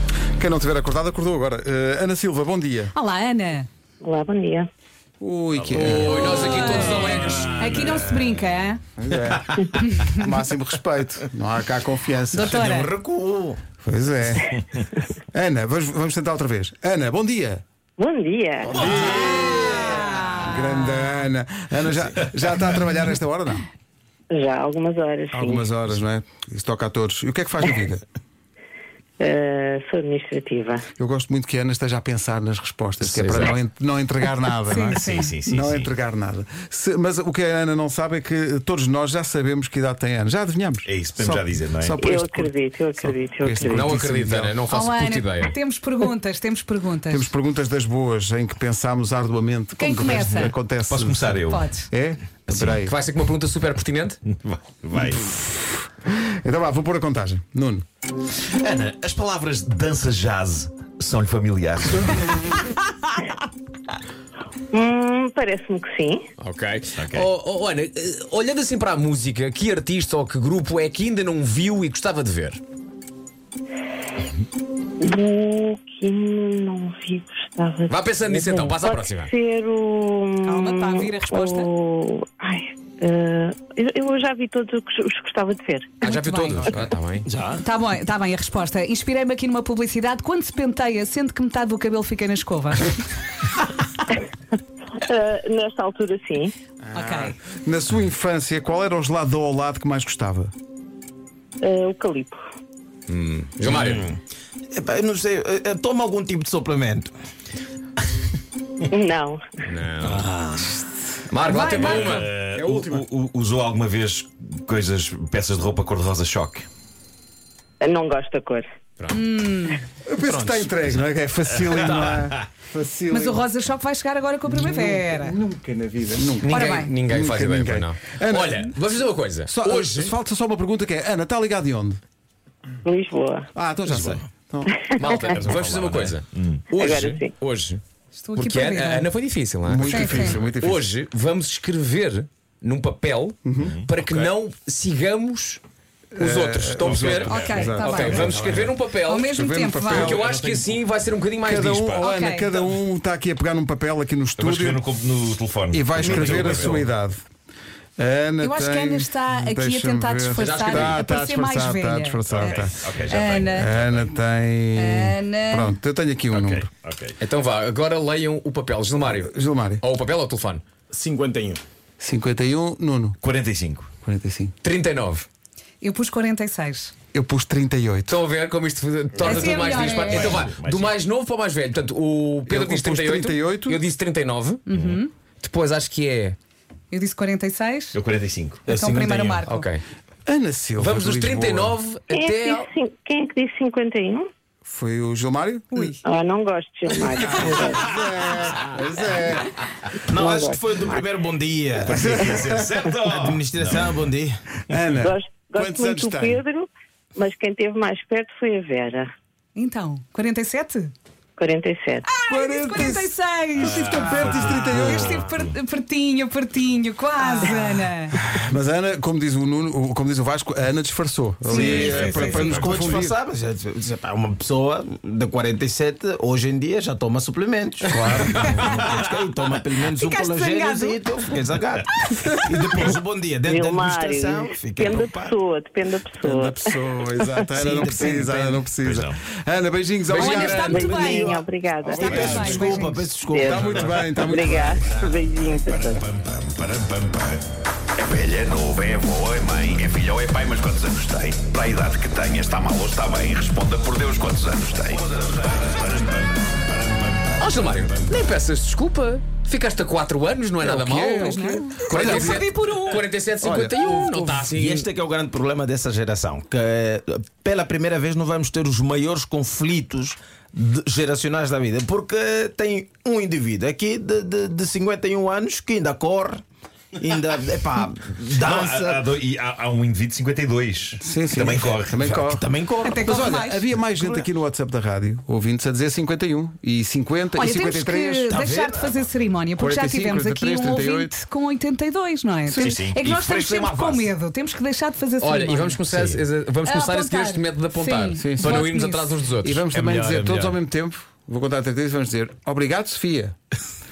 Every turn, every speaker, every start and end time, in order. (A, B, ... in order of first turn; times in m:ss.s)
0:00.4-0:02.9 A
0:02.9-0:03.7 B
0:04.0-0:04.7 C
0:05.2-0:06.5 A
0:05.6-0:06.7 D
0:05.7-0:07.7 E
0:06.1-0:08.8 B
0:09.0-0:12.7 A
0:09.8-0:10.3 B
0:12.3-0:12.9 B
0:12.3-0:13.6 F
0:13.8-0:14.6 A
0:15.3-0:17.6 A
0:18.0-0:19.2 C
0:18.8-0:23.7 A
0:19.0-0:19.3 F
0:19.3-0:20.9 B
0:24.3-0:25.7 C
0:25.3-0:28.0 A
0:29.2-0:30.9 C
0:31.0-0:44.6 A
0:33.0-0:33.6 E
0:34.7-0:35.3 B
0:34.9-0:35.9 D
0:40.9-0:42.0 D
0:42.0-0:43.9 C
0:43.6-0:45.6 E
0:44.7-0:47.3 B
0:47.1-0:53.0 A
0:49.8-0:50.6 B
0:50.9-0:51.7 D
0:51.5-0:51.9 B
0:52.5-0:52.8 D
0:52.6-0:54.2 E
0:54.3-0:55.3 D
0:55.3-0:57.8 A
0:58.5-1:02.2 D
1:04.7-1:06.3 C
1:06.4-1:12.6 E
1:07.0-1:07.3 D
1:15.0-1:26.0 C
1:17.9-1:19.3 E
1:20.5-1:21.7 B
1:26.0-1:26.7 B
1:26.0-1:27.3 E
1:27.3-1:27.6 F
1:27.5-1:33.1 B
1:35.0-1:36.5 C
1:36.8-1:40.5 A
1:36.9-1:37.4 B
1:41.6-1:42.4 C
1:43.1-1:44.1 E
1:43.6-1:44.2 F
1:44.7-1:47.1 F
1:48.9-1:49.4 C
1:49.6-1:50.3 E
1:50.2-1:50.7 F
1:51.3-1:52.3 E
1:51.4-1:52.3 B
1:51.7-1:56.7 D
1:52.6-1:53.0 A
1:57.8-1:58.6 C
1:59.1-1:59.8 B
2:00.0-2:03.4 A
2:00.2-2:00.9 F
2:01.7-2:02.1 D
2:03.1-2:05.4 B
2:04.5-2:08.8 A
2:06.4-2:10.1 E
2:06.5-2:07.0 B
2:09.5-2:12.0 A
2:12.8-2:13.5 C
2:13.5-2:14.8 A
2:13.9-2:14.2 F
2:14.8-2:15.3 C
2:15.0-2:17.8 E
2:15.2-2:16.7 D
2:16.7-2:17.3 C
2:18.2-2:19.1 B
2:18.4-2:25.6 E
2:19.6-2:20.9 A
2:19.9-2:20.4 B
2:23.4-2:23.8 A
2:23.6-2:24.3 D
2:26.2-2:28.6 A
2:26.2-2:29.3 E
2:26.8-2:28.8 D
2:27.2-2:28.4 B
2:29.0-2:30.1 B
2:29.2-2:30.2 A
2:29.9-2:32.0 E
2:29.9-2:30.9 D
2:31.4-2:34.8 A
2:31.9-2:32.6 B
2:34.4-2:36.9 D
2:35.7-2:37.2 A
2:38.0-2:46.7 A
2:38.4-2:43.7 B
2:40.3-2:41.1 E
2:42.3-2:44.2 D
2:44.8-2:45.8 B
2:46.3-2:47.2 D
2:47.2-2:50.6 E
2:49.2-2:49.8 A
2:50.9-2:51.6 F
2:52.0-2:53.2 A
2:53.2-2:53.9 D
2:54.0-2:54.6 A
2:54.6-2:55.3 E
2:55.8-2:56.9 B
2:57.1-2:58.2 A
2:58.1-3:04.6 E
2:59.2-3:01.0 D
2:59.2-3:00.5 B
3:02.5-3:03.8 A
3:04.7-3:05.1 B
3:04.7-3:05.0 D
3:05.4-3:06.4 E
3:06.9-3:08.0 B
3:07.9-3:08.6 D
3:08.7-3:09.5 F
3:08.7-3:09.7 B
3:09.5-3:09.8 E
3:10.3-3:11.8 A
3:10.8-3:12.7 E
3:12.1-3:14.3 C
3:14.6-3:16.0 A
3:16.0-3:18.0 C
3:17.3-3:19.5 A
3:20.1-3:22.1 F
3:20.1-3:21.1 C
3:21.8-3:23.9 D
3:21.9-3:22.6 A
3:23.0-3:24.4 F
3:24.7-3:26.4 A
3:24.9-3:29.1 C
3:29.6-3:30.9 B
3:31.4-3:32.0 C
3:32.1-3:38.2 B
3:32.3-3:35.3 A
3:33.9-3:34.9 F
3:38.2-3:43.2 A
3:41.5-3:42.1 B
3:41.5-3:55.4 F
3:41.5-3:42.9 E
3:41.7-3:42.2 D
3:47.9-3:48.8 A
3:49.9-3:51.0 B
3:51.9-3:52.6 B
3:53.4-3:56.7 C
3:56.2-4:01.2 A
3:57.5-3:58.6 F
3:58.8-3:59.2 D
4:00.2-4:00.6 E
4:00.2-4:04.6 F
4:00.2-4:01.3 B
4:00.3-4:02.8 C
4:01.9-4:04.8 A
4:02.0-4:02.3 D
4:02.3-4:03.0 B
4:03.3-4:06.0 C
4:05.8-4:07.4 D
4:08.0-4:17.8 D
4:17.4-4:24.9 E
4:20.6-4:22.4 A
4:21.0-4:23.1 B
4:22.0-4:22.2 F
4:23.4-4:24.3 A
4:23.8-4:36.4 F
4:37.0-4:39.1 F
4:38.3-4:42.1 D
4:41.0-4:48.4 A
4:41.9-4:44.3 F
4:42.8-4:43.6 B
4:47.3-4:55.8 B
4:48.3-4:49.1 F
4:49.6-4:51.1 A
4:52.5-4:52.8 A
4:52.6-4:54.1 D
4:55.2-4:59.8 E
4:55.9-4:56.2 D
4:56.6-4:59.2 B
4:58.2-4:58.7 A
4:59.4-5:03.4 A
4:59.7-5:00.6 D